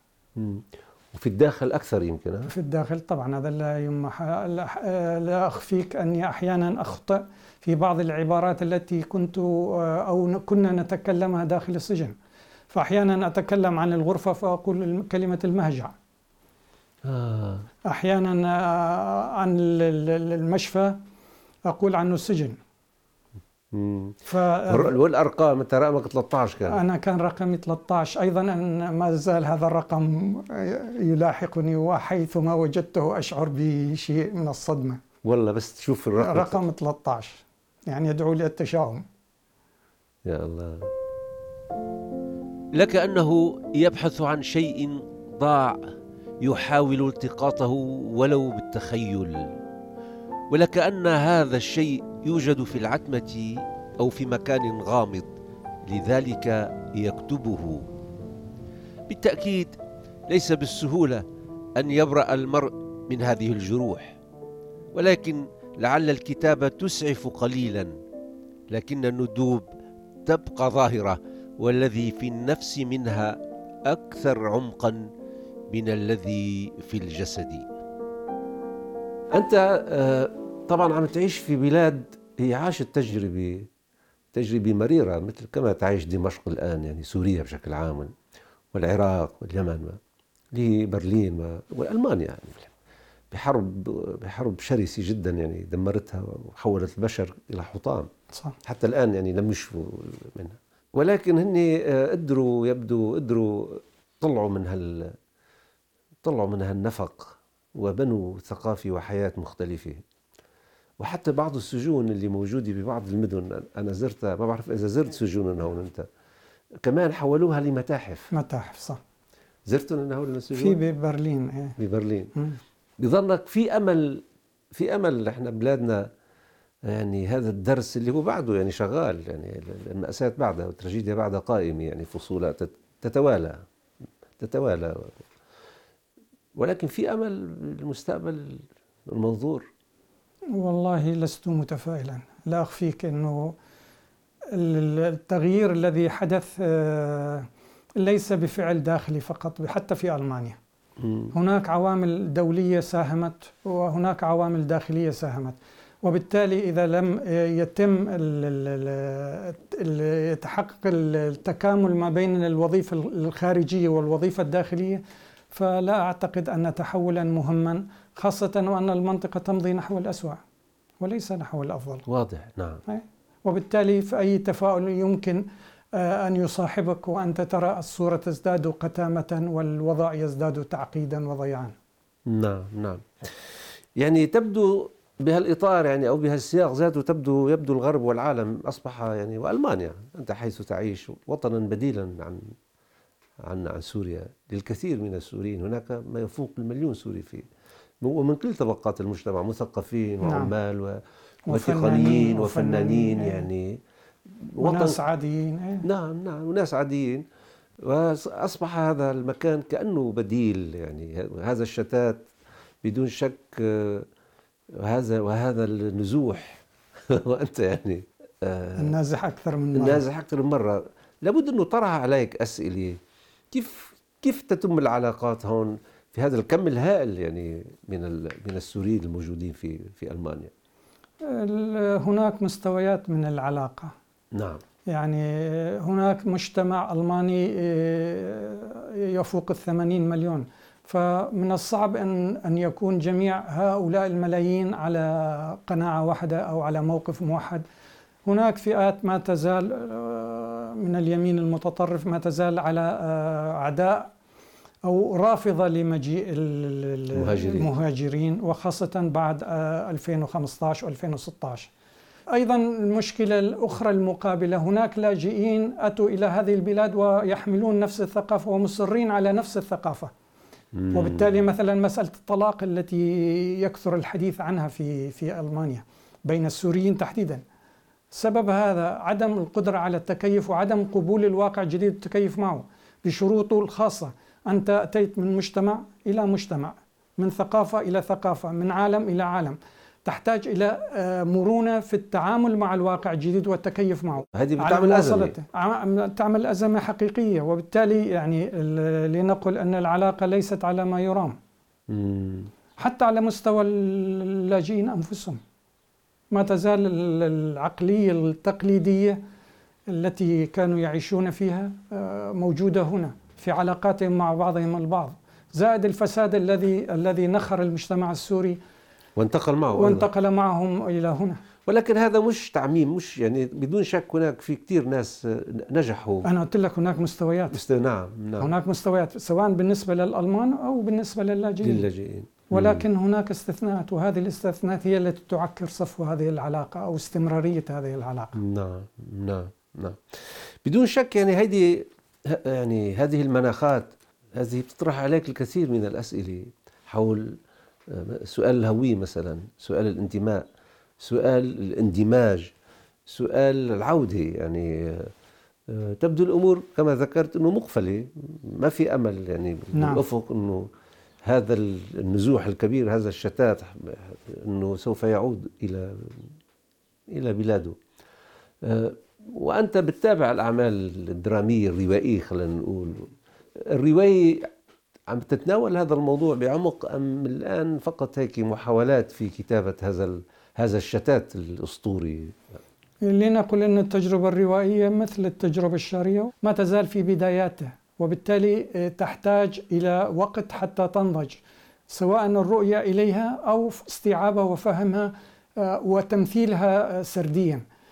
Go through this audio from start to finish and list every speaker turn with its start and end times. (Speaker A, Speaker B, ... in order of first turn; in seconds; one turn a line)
Speaker A: 0.4-2.5
Speaker B: 2.5-12.2
Speaker B: 12.7-15.9
Speaker A: 17.1-17.7
Speaker B: 17.9-21.0
Speaker B: 21.7-22.6
Speaker A: 23.7-26.8
Speaker B: 24.3-24.9
Speaker B: 26.7-35.0
Speaker A: 35.2-36.6
Speaker B: 36.2-39.0
Speaker A: 40.3-40.9
Speaker A: 42.8-45.9
Speaker A: 46.4-49.5
Speaker A: 50.5-55.3
Speaker A: 55.9-57.9
Speaker A: 59.1-59.8
Speaker A: 60.3-61.2
Speaker A: 61.8-64.2
Speaker A: 64.9-67.9
Speaker A: 68.7-69.7
Speaker A: 70.3-75.1
Speaker A: 75.7-77.7
Speaker A: 79.3-83.7
Speaker A: 84.3-88.1
Speaker A: 88.7-90.0
Speaker A: 90.5-92.7
Speaker A: 93.3-98.1
Speaker B: 98.3-98.6
Speaker A: 98.7-105.1
Speaker A: 106.2-110.0
Speaker A: 111.0-116.1
Speaker A: 116.8-118.3
Speaker B: 118.3-119.0
Speaker A: 119.7-120.8
Speaker B: 120.5-121.8
Speaker A: 121.8-122.3
Speaker A: 123.0-126.1
Speaker A: 126.9-133.6
Speaker A: 134.4-135.1
Speaker A: 136.6-139.7
Speaker B: 140.6-143.6
Speaker B: 144.5-147.5
Speaker B: 148.0-150.6
Speaker A: 151.0-151.3
Speaker B: 151.3-170.4
Speaker B: 171.0-172.1
Speaker A: 172.1-172.8
Speaker B: 172.9-181.7
Speaker A: 182.3-192.4
Speaker A: 193.5-197.4
Speaker A: 198.0-203.8
Speaker B: 200.2-200.5
Speaker B: 201.5-203.5
Speaker A: 204.4-205.0
Speaker B: 204.6-205.9
Speaker A: 205.8-207.2
Speaker A: 207.8-212.3
Speaker A: 212.8-214.1
Speaker A: 214.8-218.9
Speaker B: 218.8-220.1
Speaker A: 219.8-223.0
Speaker A: 223.5-230.5
Speaker B: 231.2-233.9
Speaker A: 234.3-234.6
Speaker B: 234.9-247.6
Speaker B: 248.3-254.1
Speaker B: 254.8-261.7
Speaker A: 257.1-257.7
Speaker B: 262.3-270.1
Speaker A: 270.8-271.3
Speaker B: 270.9-277.4
Speaker B: 278.1-301.4
Speaker A: 294.3-295.4
Speaker A: 301.9-302.5
Speaker B: 302.8-305.4
Speaker B: 306.3-309.2
Speaker B: 309.9-318.6
Speaker A: 319.2-320.1
Speaker B: 319.7-321.4
Speaker A: 321.7-326.2
Speaker B: 326.2-327.6
Speaker A: 327.5-328.5
Speaker B: 328.4-331.9
Speaker A: 331.6-332.9
Speaker B: 332.5-338.4
Speaker A: 338.4-350.5
Speaker A: 351.0-352.5
Speaker A: 353.1-355.1
Speaker A: 355.7-360.7
Speaker B: 359.7-360.0
Speaker A: 361.2-366.3
Speaker A: 367.1-367.8
Speaker A: 368.6-373.1
Speaker A: 373.7-374.5
Speaker A: 375.1-382.6
Speaker B: 383.1-397.6